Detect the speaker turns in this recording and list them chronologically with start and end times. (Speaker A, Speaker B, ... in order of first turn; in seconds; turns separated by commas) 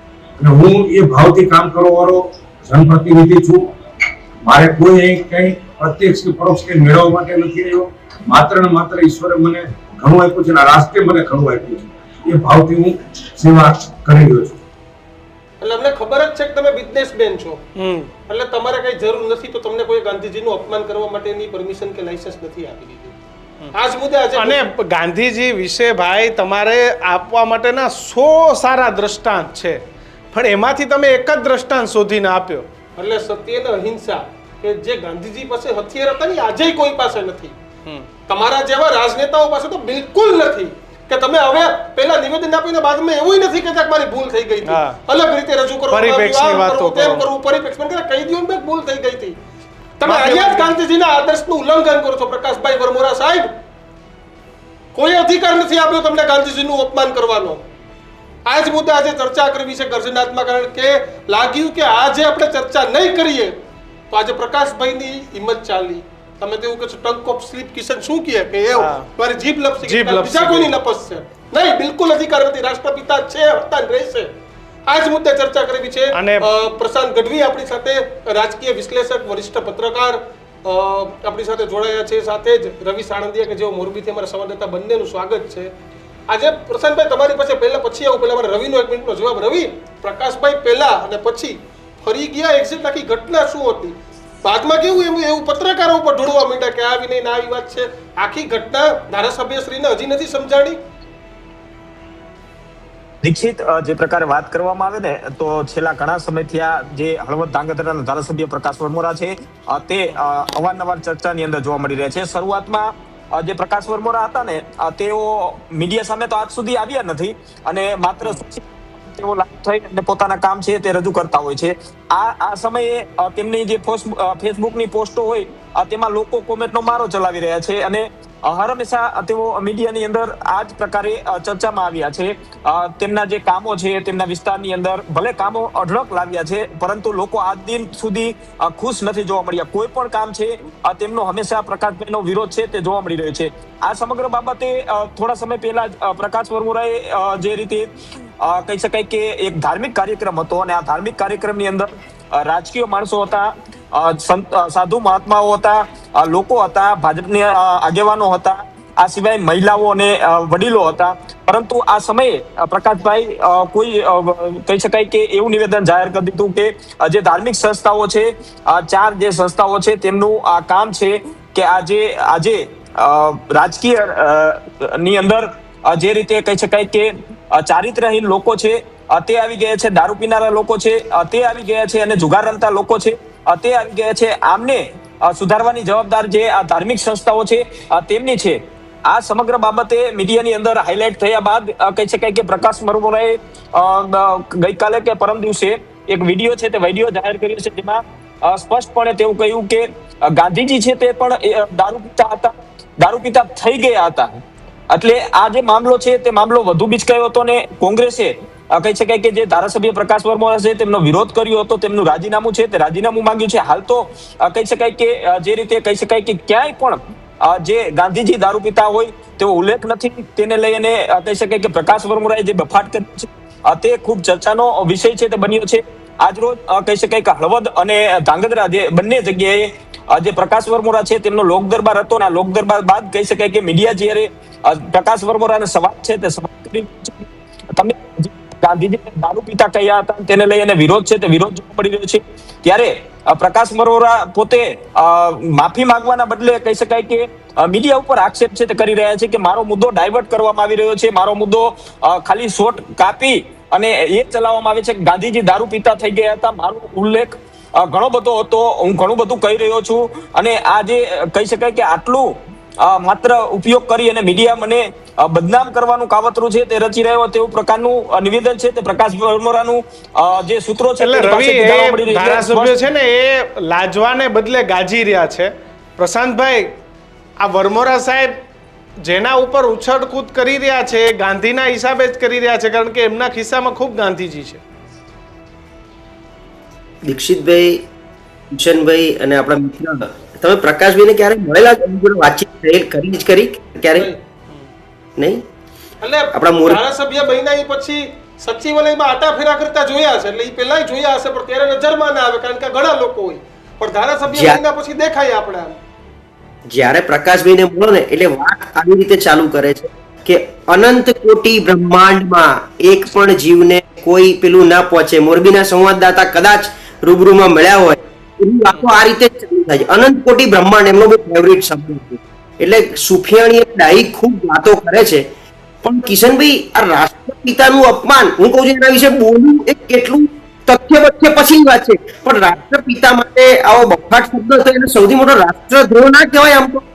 Speaker A: 0.4-3.7, Speaker A: 4.4-14.6, Speaker B: 15.6-17.6, Speaker C: 17.8-18.1, Speaker B: 18.3-23.1, Speaker B: 23.7-24.7, Speaker C: 24.4-29.8, Speaker C: 30.3-32.7, Speaker B: 33.0-37.5, Speaker B: 38.3-49.4, Speaker C: 44.6-45.0, Speaker C: 45.9-47.3, Speaker B: 50.0-53.5, Speaker C: 50.0-50.7, Speaker B: 54.9-57.6, Speaker B: 58.5-63.5, Speaker B: 64.1-74.3, Speaker C: 68.8-69.1, Speaker C: 69.8-70.7, Speaker B: 74.9-85.7, Speaker C: 76.1-76.5, Speaker B: 86.3-100.8, Speaker D: 103.2-147.9, Speaker D: 148.4-272.9, Speaker C: 271.0-276.8, Speaker C: 277.4-278.4, Speaker C: 279.0-284.6, Speaker E: 287.0-287.8, Speaker E: 288.5-294.1, Speaker E: 295.2-295.4, Speaker B: 296.0-305.7, Speaker E: 296.3-296.8, Speaker E: 304.3-304.6, Speaker E: 306.7-325.2, Speaker E: 325.8-336.8